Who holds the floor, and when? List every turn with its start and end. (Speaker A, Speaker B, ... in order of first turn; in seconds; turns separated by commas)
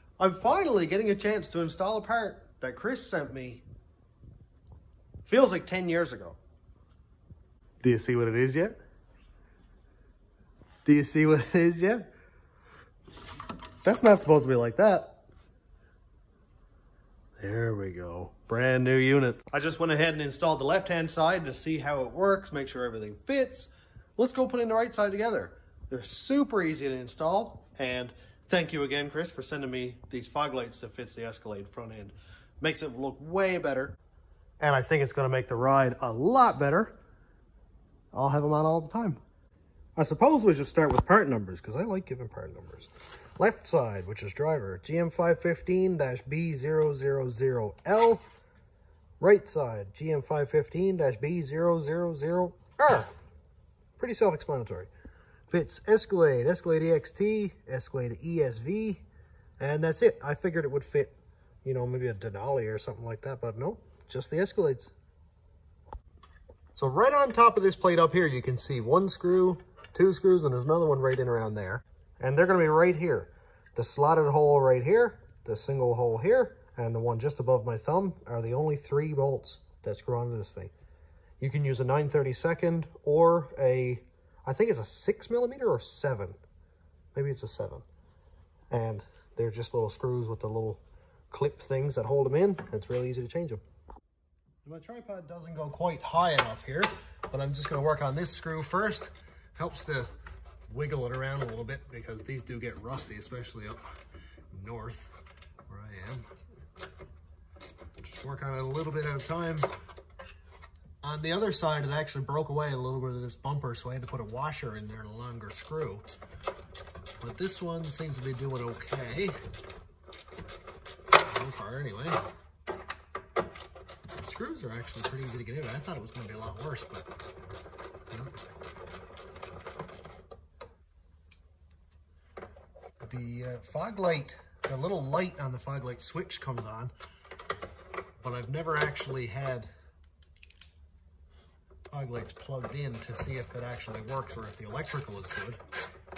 Speaker A: 0.2-3.6, Speaker A: 5.2-6.4, Speaker A: 7.8-8.8, Speaker A: 10.8-12.1, Speaker A: 13.8-15.2, Speaker A: 17.4-34.0, Speaker A: 34.6-37.0, Speaker A: 38.1-39.2, Speaker A: 40.0-48.2, Speaker A: 49.2-53.1, Speaker A: 54.0-54.9, Speaker A: 55.5-59.0, Speaker A: 59.6-61.1, Speaker A: 61.6-64.9, Speaker A: 66.7-80.7, Speaker A: 81.4-86.4, Speaker A: 87.1-87.8, Speaker A: 88.7-93.6, Speaker A: 94.6-100.1, Speaker A: 100.7-103.8, Speaker A: 104.5-105.1, Speaker A: 105.7-106.3, Speaker A: 108.0-109.7, Speaker A: 111.0-116.1, Speaker A: 117.2-119.4, Speaker A: 121.2-122.2, Speaker A: 124.2-127.1, Speaker A: 128.1-128.3, Speaker A: 133.0-136.9, Speaker A: 138.2-139.7, Speaker A: 141.9-145.6